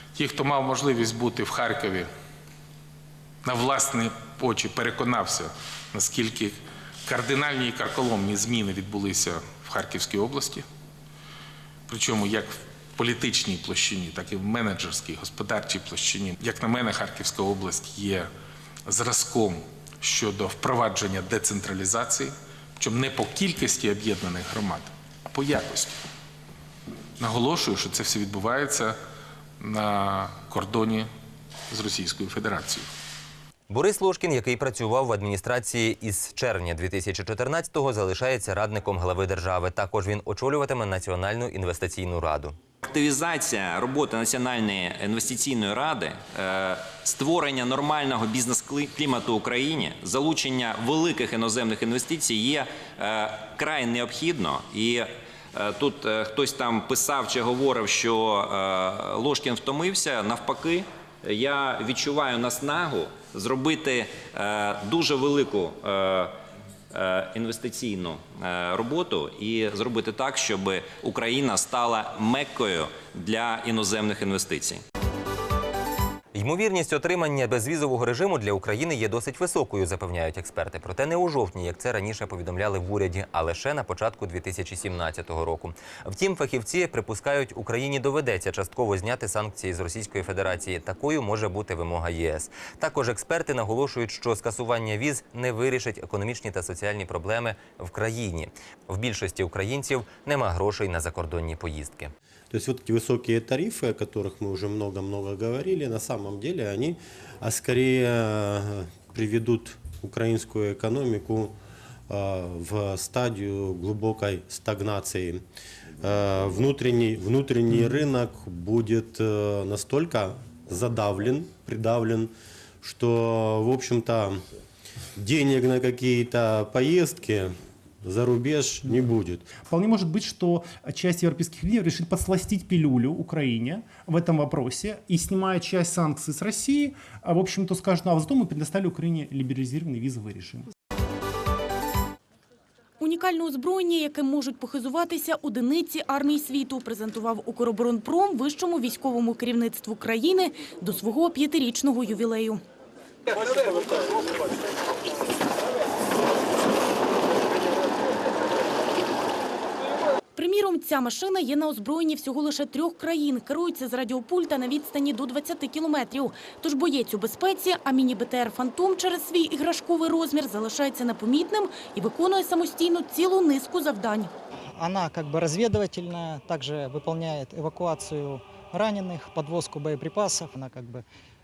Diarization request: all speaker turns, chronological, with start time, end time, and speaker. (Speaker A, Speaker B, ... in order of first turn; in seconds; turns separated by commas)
Speaker A: 0.1-2.1, Speaker A: 3.4-6.5, Speaker A: 7.0-10.6, Speaker A: 11.9-18.3, Speaker A: 18.9-26.0, Speaker A: 27.2-28.9, Speaker A: 29.6-31.1, Speaker A: 31.7-32.9, Speaker B: 33.7-42.5, Speaker C: 42.8-66.3, Speaker C: 66.9-74.8, Speaker B: 76.3-102.1, Speaker D: 102.5-111.5, Speaker D: 112.1-115.4, Speaker D: 116.0-124.4, Speaker D: 125.2-129.5, Speaker E: 129.6-140.7, Speaker F: 143.0-152.6, Speaker F: 160.3-174.3, Speaker G: 174.8-181.0